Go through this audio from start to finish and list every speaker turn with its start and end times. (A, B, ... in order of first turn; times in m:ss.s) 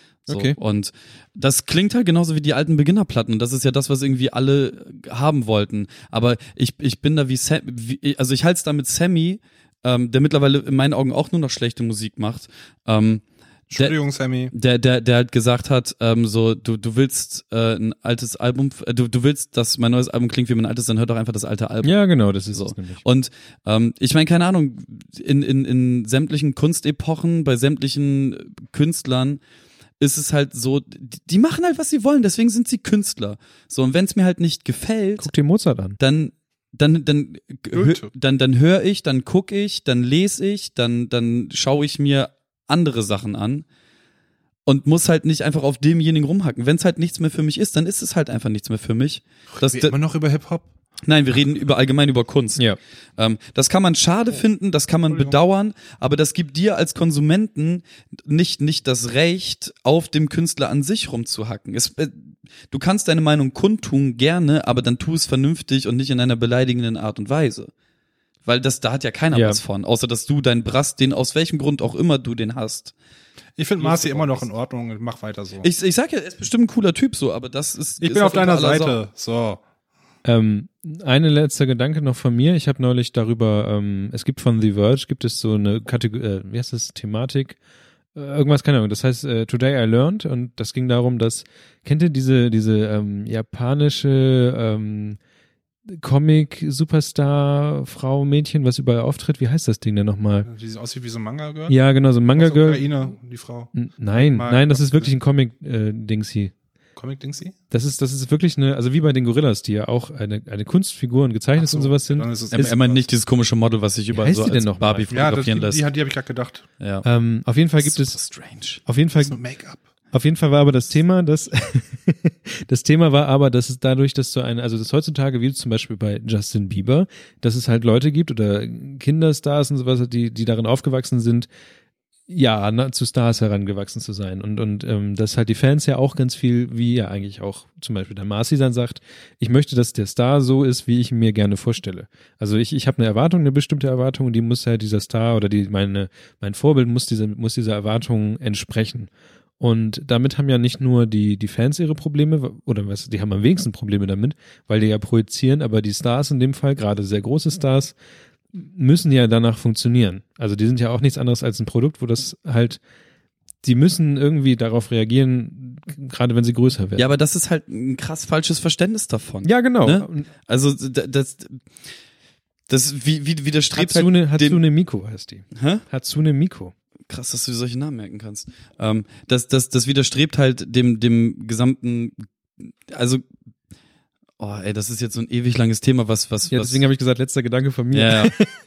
0:00.3-0:00.6 A
0:00.3-0:13.2 B
0:13.7-0:14.5 C
0:14.5-0:21.9 B
0:21.8-0:23.0 A
0:22.5-0:29.4 B
0:30.0-0:35.3 B
0:35.2-0:36.0 A
0:36.0-0:43.7 B
0:37.7-0:38.1 C
0:44.7-0:49.9 B
0:49.6-0:50.6 C
0:51.0-0:52.6 B
0:53.2-1:07.7 B
0:55.1-0:55.4 C
1:08.4-1:12.9 B
1:09.3-1:09.6 A
1:13.6-1:15.7 C
1:13.8-1:14.5 B
1:15.6-1:19.0 B
1:18.0-1:19.6 C
1:20.2-1:27.6 A
1:28.2-1:35.2 A
1:35.9-1:40.5 A
1:40.5-1:41.8 C
1:41.7-1:42.9 A
1:42.3-1:45.1 C
1:43.8-1:46.5 A
1:47.0-1:47.6 C
1:47.7-1:52.3 A
1:51.6-1:53.0 C
1:52.5-1:55.8 B
1:54.1-1:55.1 A
1:55.1-1:56.7 C
1:56.8-1:57.0 B
1:57.0-1:58.2 A
1:57.8-1:58.8 B
1:58.9-1:59.4 A
1:59.2-1:59.8 C
2:00.1-2:11.5 A
2:12.3-2:38.0 A
2:38.5-2:42.8 A
2:43.6-2:47.1 A
2:47.0-2:51.6 B
2:49.4-2:50.3 A
2:52.7-2:54.6 B
2:53.7-2:56.7 A
2:55.6-2:55.8 B
2:57.1-3:03.2 B
3:04.4-3:06.8 B
3:06.5-3:08.6 A
3:07.9-3:08.3 B